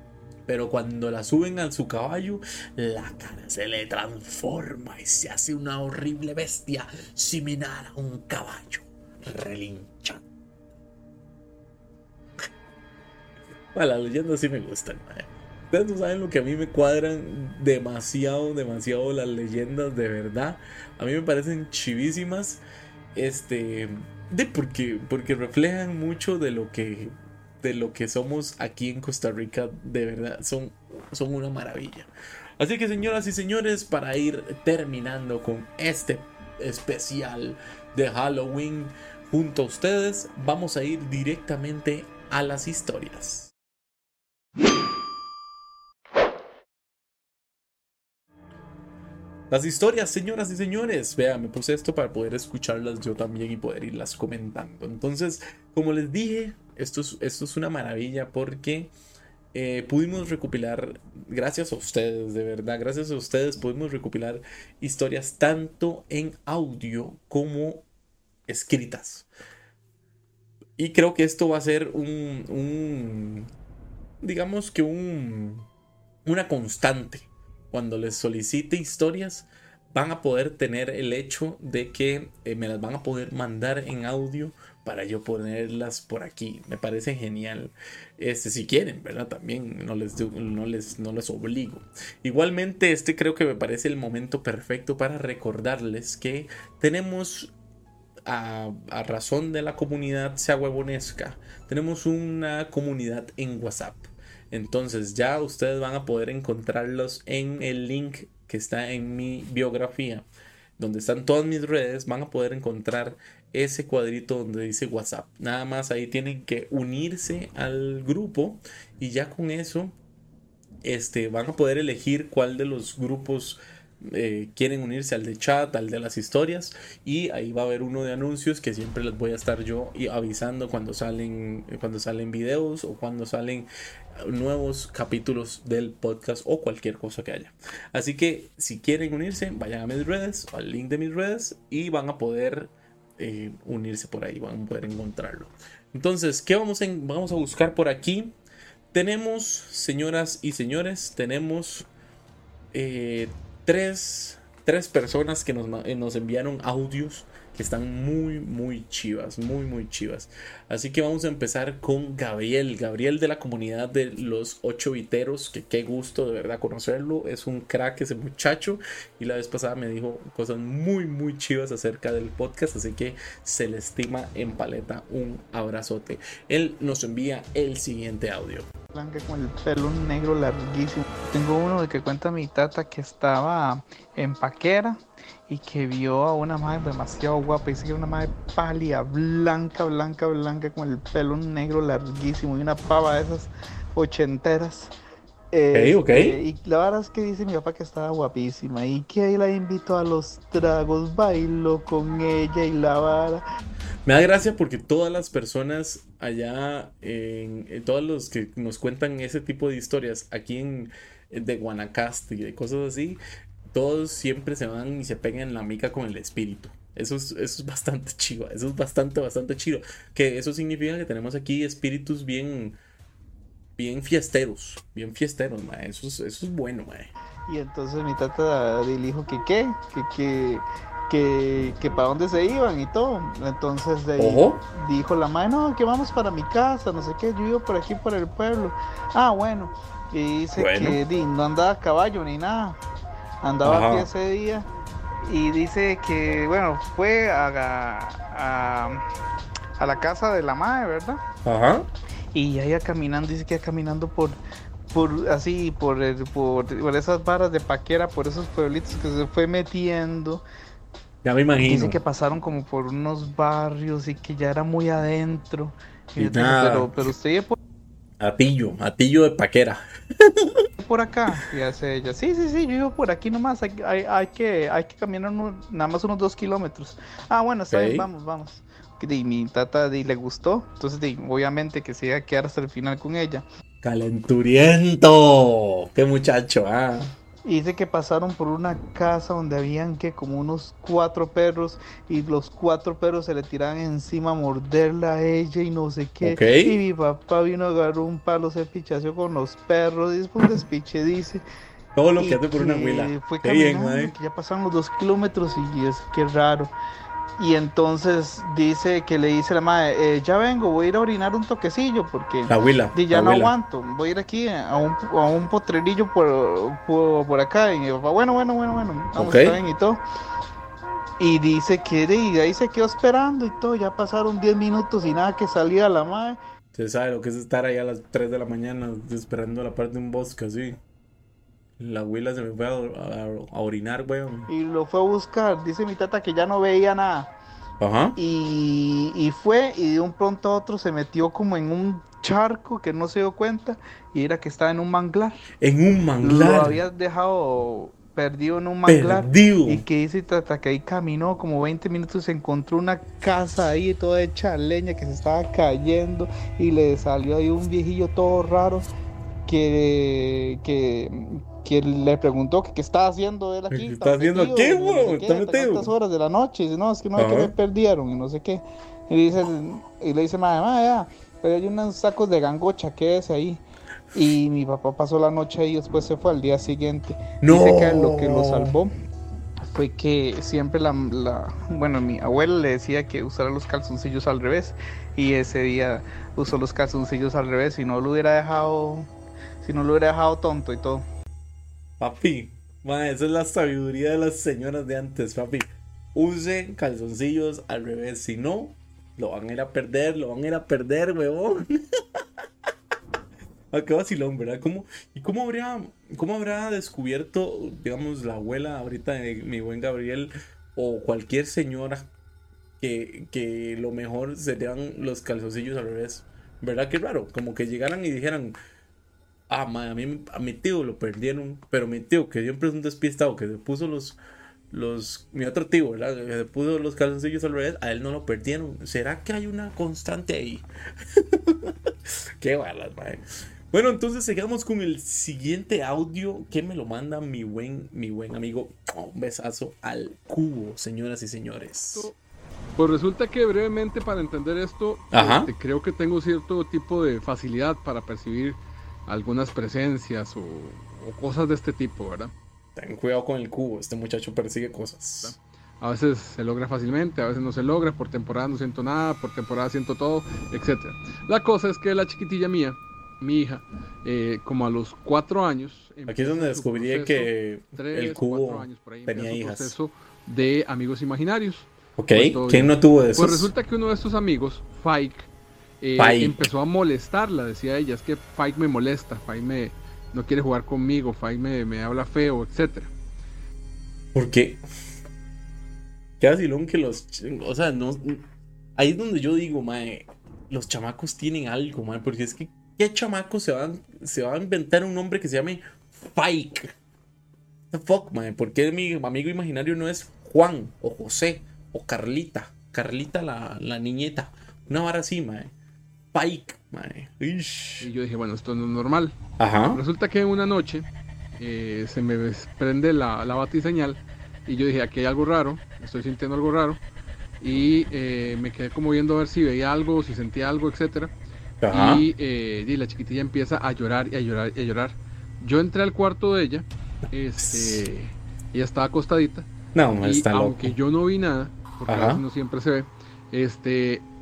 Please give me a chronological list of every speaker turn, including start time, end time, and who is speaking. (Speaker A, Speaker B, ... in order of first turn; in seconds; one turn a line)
Speaker A: 0.5-10.2
Speaker A: 13.7-22.6
Speaker A: 23.1-32.1
Speaker A: 32.6-43.5
Speaker A: 49.5-58.9
Speaker A: 59.5-67.8
Speaker A: 68.5-69.3
Speaker A: 70.8-73.5
Speaker A: 74.2-75.7
Speaker A: 76.2-97.5
Speaker A: 98.3-110.3
Speaker A: 110.8-119.9
Speaker A: 120.8-133.7
Speaker A: 134.2-148.3
Speaker A: 148.9-151.9
Speaker A: 152.7-178.7
Speaker B: 178.9-194.9
Speaker B: 195.5-203.4
Speaker A: 195.7-196.4
Speaker A: 204.1-213.2
Speaker A: 213.7-222.8
Speaker A: 223.8-227.1
Speaker B: 227.5-242.8
Speaker A: 234.2-234.6
Speaker A: 240.6-241.0
Speaker B: 243.4-244.7
Speaker A: 243.6-244.1
Speaker B: 245.2-249.0
Speaker B: 249.8-251.2
Speaker A: 251.4-251.9
Speaker B: 252.3-254.4
Speaker B: 254.9-260.4
Speaker A: 261.2-262.0
Speaker B: 261.6-267.6
Speaker A: 266.1-267.1
Speaker A: 268.2-270.6
Speaker B: 270.8-283.4
Speaker A: 277.7-278.1
Speaker A: 283.8-287.1
Speaker B: 287.4-301.4
Speaker A: 296.2-296.8
Speaker A: 301.9-304.1
Speaker B: 302.2-306.7
Speaker B: 307.4-320.0
Speaker A: 312.5-313.5
Speaker A: 319.1-319.6
Speaker B: 321.2-326.4
Speaker A: 326.7-330.8
Speaker A: 331.8-334.5
Speaker B: 334.5-337.3
Speaker A: 337.8-338.1
Speaker B: 338.1-345.4
Speaker A: 345.6-346.8
Speaker B: 346.2-358.9
Speaker A: 348.9-349.8
Speaker B: 359.5-373.6
Speaker A: 363.7-365.9
Speaker A: 367.1-367.5
Speaker B: 374.1-378.9
Speaker A: 377.4-378.7
Speaker B: 379.6-389.1
Speaker B: 389.6-391.0
Speaker A: 392.0-401.8
Speaker A: 403.7-412.1
Speaker A: 412.8-418.6
Speaker A: 419.5-424.2
Speaker A: 424.7-430.6
Speaker A: 431.2-431.7
Speaker A: 432.4-442.1
Speaker C: 442.8-452.3
Speaker A: 445.1-445.5
Speaker A: 452.8-455.4
Speaker C: 455.2-475.3
Speaker A: 466.1-469.7
Speaker A: 472.0-473.5
Speaker C: 475.8-482.9
Speaker A: 476.0-476.5
Speaker A: 484.1-484.6
Speaker A: 486.2-488.2
Speaker A: 488.8-496.7
Speaker A: 497.7-505.5
Speaker A: 506.1-507.9
Speaker C: 507.8-509.2
Speaker A: 509.4-509.8
Speaker C: 509.7-510.9
Speaker C: 511.4-516.8
Speaker C: 517.4-521.1
Speaker A: 521.6-522.0
Speaker C: 521.7-529.5
Speaker A: 527.4-528.0
Speaker A: 529.8-530.8
Speaker C: 530.0-534.0
Speaker A: 531.9-532.2